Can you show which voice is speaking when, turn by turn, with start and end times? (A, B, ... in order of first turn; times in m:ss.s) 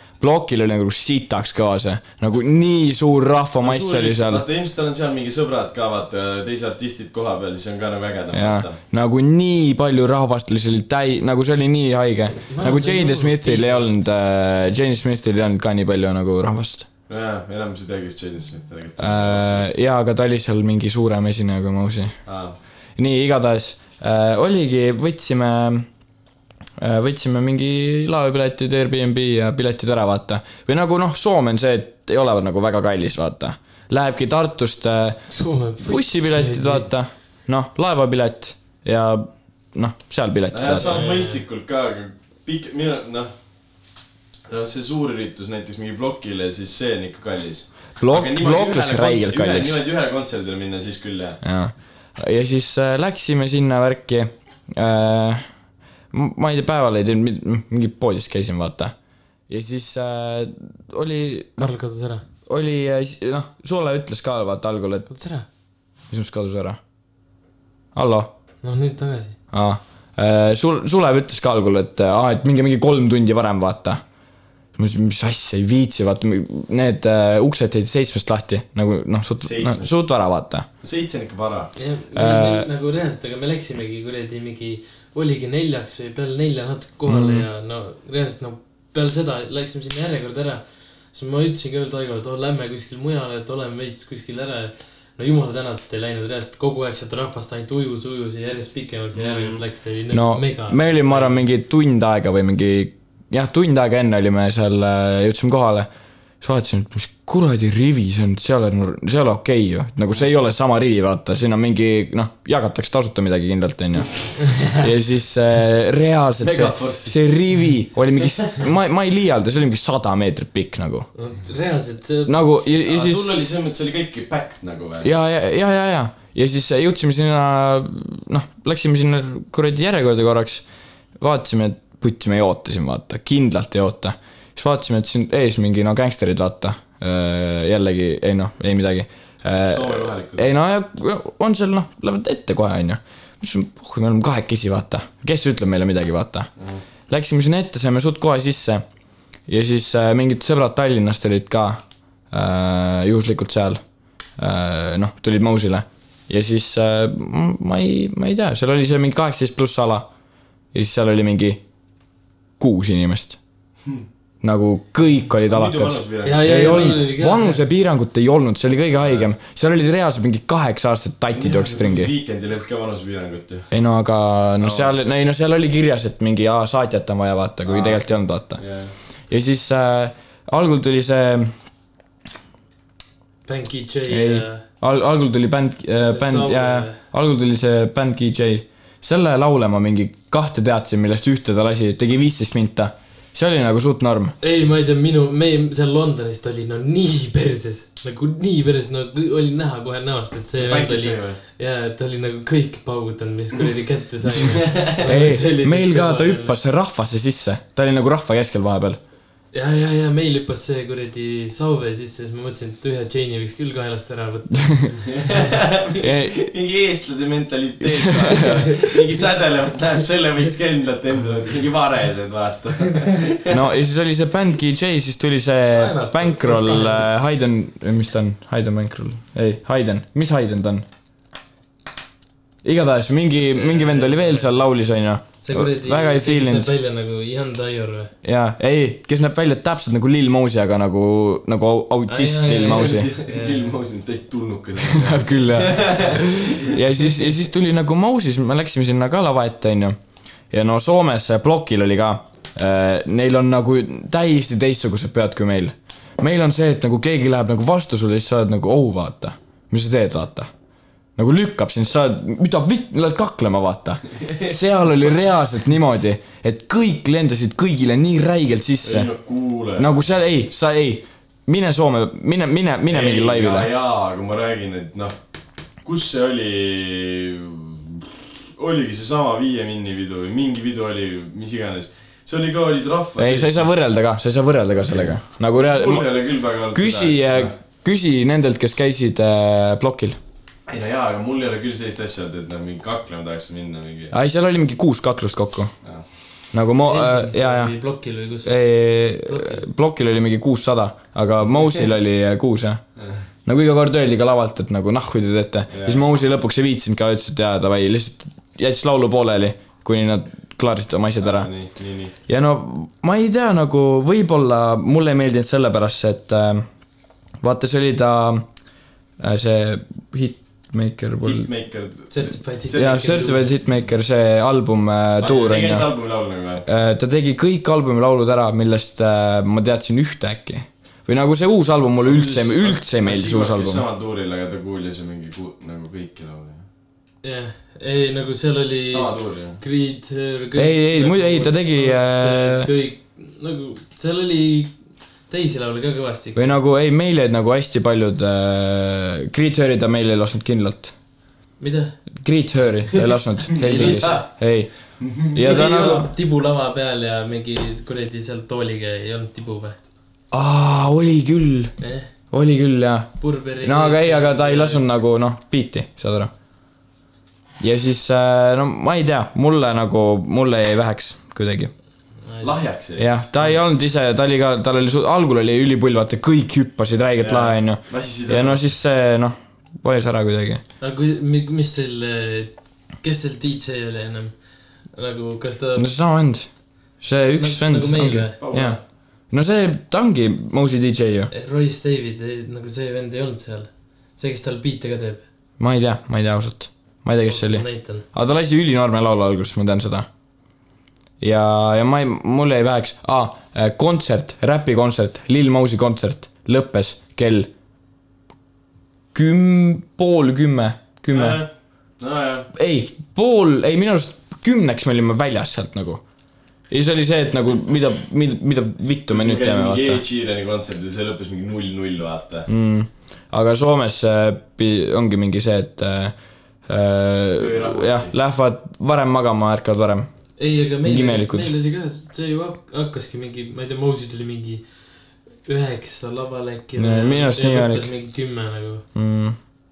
0:00.2-0:04.4 A
0:03.6-0:08.8 B
0:08.3-0:16.9 A
0:12.5-0:14.0 C
0:17.1-0:19.7 B
0:19.0-0:22.2 A
0:22.3-0:22.6 B
0:23.0-0:25.9 A
0:26.8-0:41.0 A
0:35.3-0:36.9 C
0:40.5-0:43.3 B
0:40.8-0:41.4 C
0:44.5-0:51.4 B
0:48.0-0:49.8 A
0:51.4-0:55.4 A
0:56.1-0:58.9 A
0:59.5-1:01.7 A
1:01.6-1:02.2 C
1:02.4-1:05.1 A
1:05.1-1:05.4 C
1:06.1-1:06.8 A
1:07.9-1:08.3 A
1:08.6-1:09.4 C
1:09.5-1:14.0 A
1:14.7-1:20.7 A
1:19.4-1:19.9 B
1:20.8-1:21.7 B
1:21.8-1:41.5 C
1:22.1-1:22.7 A
1:27.1-1:27.4 A
1:39.2-1:39.6 B
1:40.1-1:45.9 A
1:46.4-2:01.1 A
1:56.4-1:57.2 B
1:58.2-1:58.6 B
2:01.2-2:02.4 C
2:02.3-2:03.3 A
2:02.8-2:05.1 B
2:05.0-2:10.6 A
2:11.2-2:26.5 A
2:19.6-2:20.5 B
2:26.6-2:26.8 B
2:27.1-2:28.8 A
2:29.5-2:33.8 A
2:34.4-2:40.1 A
2:40.7-2:41.6 A
2:42.6-2:43.4 A
2:44.4-2:52.1 A
2:45.4-2:47.0 B
2:46.2-2:47.6 C
2:49.0-2:49.3 B
2:51.3-2:53.7 B
2:53.7-2:58.6 A
2:54.6-2:54.9 B
2:57.6-2:58.9 B
2:59.3-3:01.5 A
3:03.4-3:04.6 C
3:04.1-3:14.3 A
3:06.0-3:07.0 C
3:14.4-3:26.6 C
3:20.6-3:21.4 B
3:24.5-3:24.9 B
3:25.0-3:29.0 A
3:29.5-3:35.6 C
3:34.6-3:34.9 A
3:35.0-3:43.6 B
3:36.0-3:36.5 A
3:37.8-3:38.9 A
3:43.5-3:50.8 A
3:45.7-3:47.0 C
3:52.6-3:56.7 A
3:53.5-3:54.6 C
3:55.4-3:58.1 C
3:58.2-4:03.1 A
4:02.1-4:03.8 C
4:02.6-4:07.1 B
4:04.8-4:10.0 A
4:10.5-4:20.5 A
4:21.2-4:29.1 A
4:24.2-4:24.5 B
4:28.8-4:30.0 B
4:29.8-4:33.7 A
4:32.9-4:35.1 B
4:35.8-4:43.8 B
4:43.2-4:46.1 A
4:44.8-4:47.5 B
4:46.7-4:50.2 A
4:50.7-4:54.1 B
4:54.1-4:55.7 A
4:56.5-4:57.7 A
4:56.8-4:58.6 C
4:58.4-5:02.8 A
4:59.1-4:59.6 C
5:03.4-5:11.5 A
5:05.7-5:06.0 B
5:11.2-5:12.1 B
5:12.3-5:16.7 A
5:17.4-5:18.5 A
5:19.2-5:21.5 A
5:21.2-5:22.1 B
5:22.1-5:23.6 C
5:22.7-5:23.0 B
5:22.7-5:25.9 A
5:25.2-5:26.6 B
5:26.6-5:33.8 A
5:32.0-5:36.6 B
5:37.2-5:46.6 C
5:38.9-5:39.6 B
5:40.6-5:42.7 A
5:46.4-5:50.9 A
5:51.6-5:52.0 C
5:52.2-5:56.0 A
5:53.6-5:54.3 B
5:53.6-5:54.2 C
5:55.0-5:56.1 B
5:55.4-5:59.8 C
6:00.3-6:01.7 A
6:01.8-6:02.1 C
6:02.3-6:06.3 A
6:03.2-6:04.9 C
6:07.6-6:11.7 A
6:12.2-6:12.6 C
6:12.4-6:13.4 B
6:13.0-6:20.6 A
6:17.2-6:18.6 B
6:20.8-6:25.9 C
6:25.8-6:31.3 A
6:27.4-6:28.4 C
6:28.4-6:28.8 B
6:31.3-6:35.2 C
6:35.6-6:40.1 A
6:37.2-6:38.0 C
6:41.2-6:47.5 A
6:49.1-6:51.4 A
6:51.1-6:51.5 B
6:52.0-6:52.5 B
6:52.5-6:56.0 A
6:56.7-7:00.0 A
6:59.1-7:02.5 B
7:02.5-7:06.1 A
7:06.7-7:10.1 A
7:07.4-7:08.1 B
7:10.4-7:14.6 C
7:10.8-7:11.5 A
7:15.4-7:18.8 C
7:16.8-7:17.9 A
7:18.9-7:19.4 A